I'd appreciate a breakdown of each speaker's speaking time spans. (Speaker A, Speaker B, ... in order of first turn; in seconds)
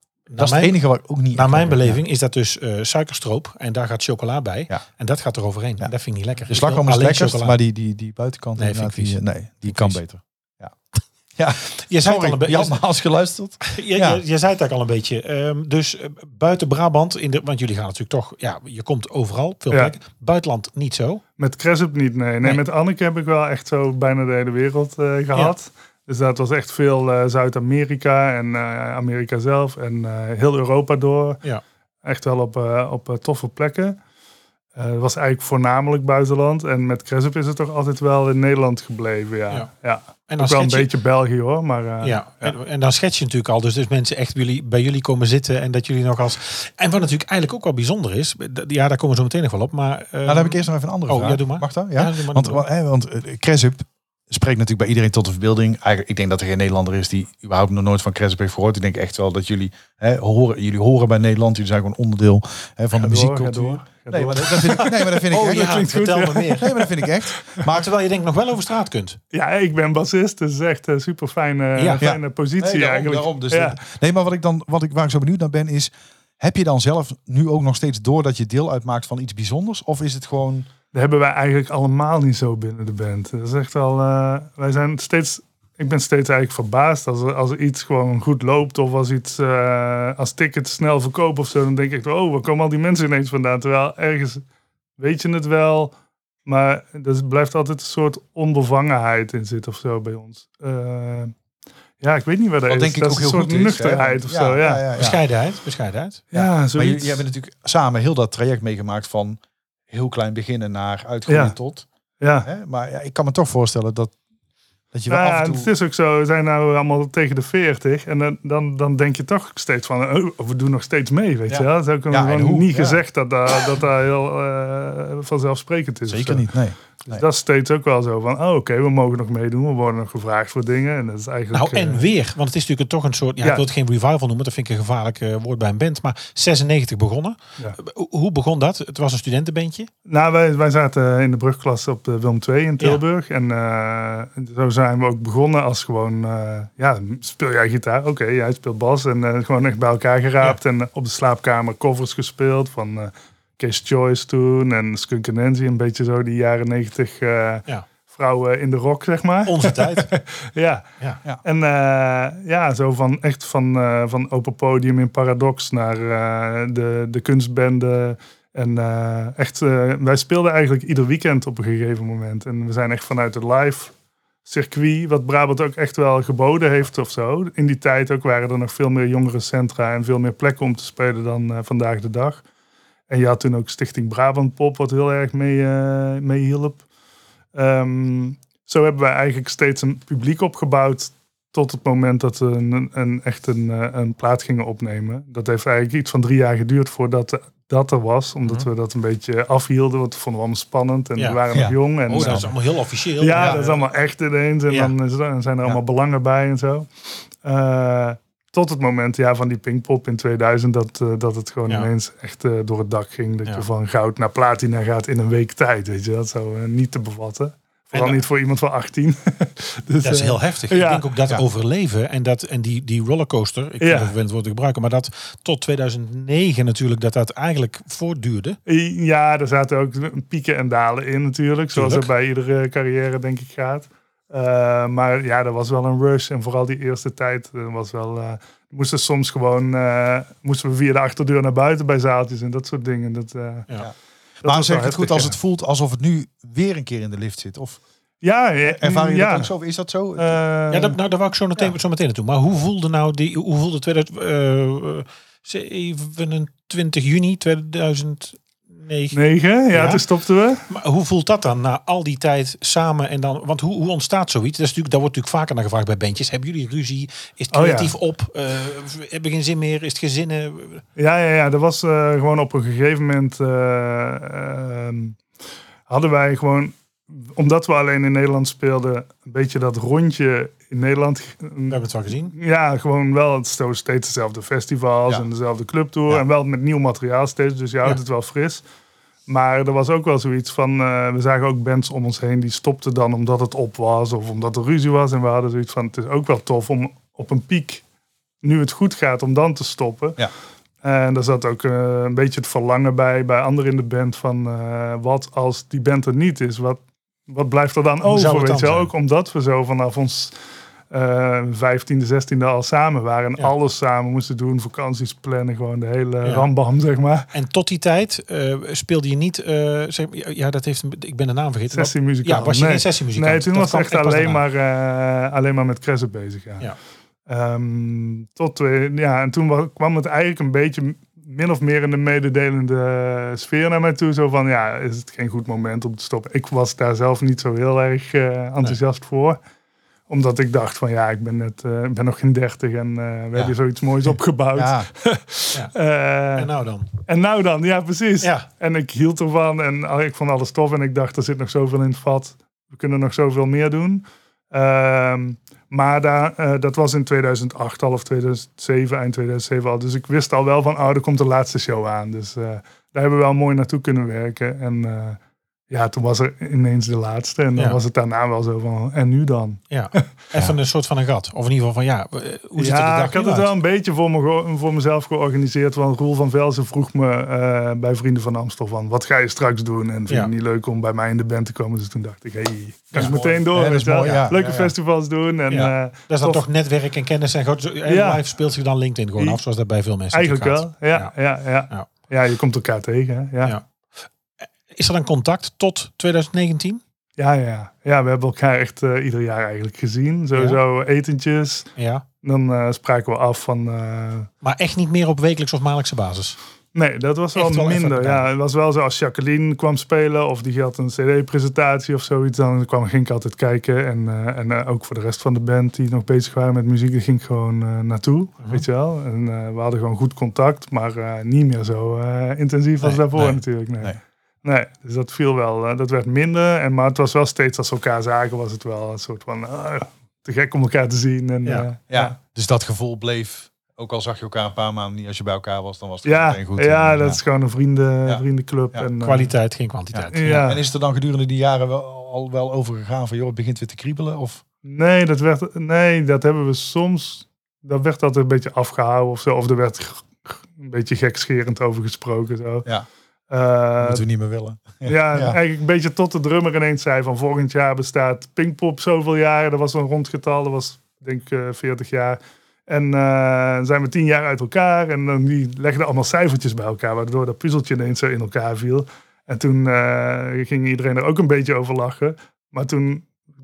Speaker A: 0.3-0.7, 1.3-7.6, 8.6-10.0, 11.8-12.8, 13.6-21.2, 40.3-40.9, 42.0-52.6, 65.1-66.8, 67.6-69.2, 71.8-72.0, 105.0-106.2, 131.5-139.9, 159.4-160.1, 202.1-203.8, 217.9-218.2, 220.0-228.6, 231.7-232.1, 250.7-259.2, 259.7-260.0, 260.7-270.8, 281.7-282.3, 308.0-308.9, 317.3-324.4, 346.4-346.9, 348.2-348.5, 369.7-373.5, 385.5-391.1, 394.7-396.8, 400.3-400.6, 401.8-402.0, 404.4-406.4, 407.4-408.3, 422.8-423.4, 439.0-440.5
Speaker B: 0.4-2.0, 6.5-10.7, 11.4-14.2, 50.2-67.9, 72.0-80.7, 102.7-105.2, 106.3-109.4, 109.9-111.9, 112.4-114.1, 114.9-115.7, 121.5-123.0, 126.1-127.2, 201.5-202.5, 203.4-203.6, 244.4-247.8, 248.7-250.4, 344.5-344.9, 382.9-384.7, 431.9-437.2, 438.1-438.9, 439.9-444.4, 453.8-455.4
Speaker C: 21.4-31.4, 32.0-34.0, 34.8-42.5, 63.0-64.9, 66.1-66.6, 69.3-73.8, 80.9-94.4, 95.0-95.9, 96.5-101.3, 102.0-104.9, 106.3-107.2, 111.3-111.5, 112.2-112.5, 115.1-126.5, 127.0-132.0, 140.1-160.8, 161.4-173.9, 174.4-182.4, 183.1-186.8, 187.5-202.5, 203.2-206.9, 207.4-221.0, 223.8-224.1, 228.7-243.7, 244.4-245.3, 248.2-249.5, 250.2-251.0, 259.1-260.6, 267.5-267.9, 270.9-275.2, 275.9-288.6, 289.3-297.8, 298.4-300.2, 300.8-310.4, 310.9-317.3, 321.7-326.7, 327.3-339.4, 340.1-346.5, 347.1-365.2, 365.7-370.0, 372.6-386.4, 387.9-388.2, 390.1-393.6, 397.2-401.7, 402.2-404.3, 406.7-432.1, 436.0-439.3, 440.1-440.6, 444.6-452.7, 453.3-454.0, 454.8-473.1